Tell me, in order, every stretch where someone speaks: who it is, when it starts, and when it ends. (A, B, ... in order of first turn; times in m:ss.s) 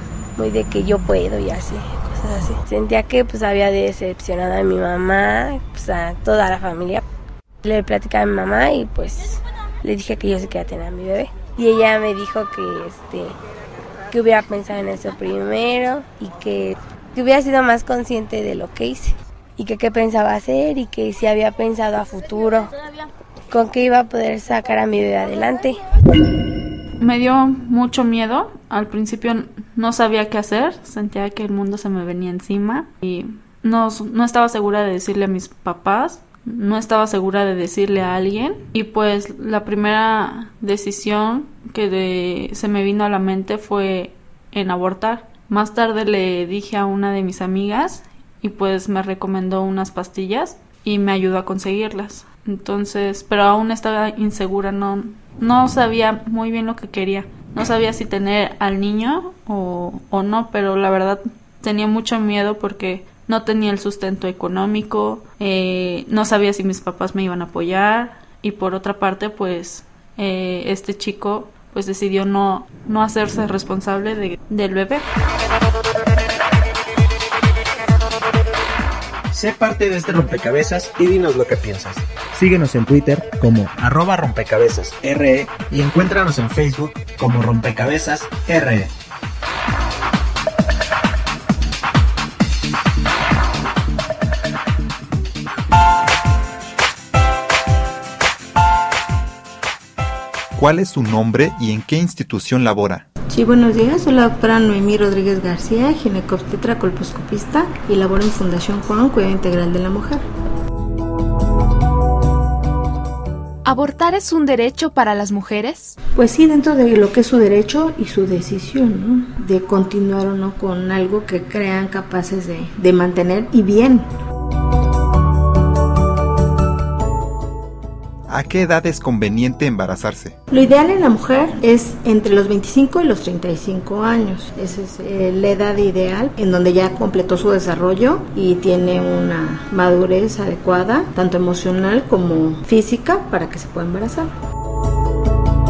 0:00.4-0:07.0 A
0:07.6-0:13.4 A
0:14.1-0:22.7 A
0:23.5-0:25.8 A
0:27.0-1:15.1 B
1:19.3-1:28.9 C
1:40.6-1:43.0 D
1:43.3-1:50.2 E
1:53.6-1:56.0 F
1:56.1-2:04.1 E
2:08.3-2:10.4 D
2:10.5-2:24.3 E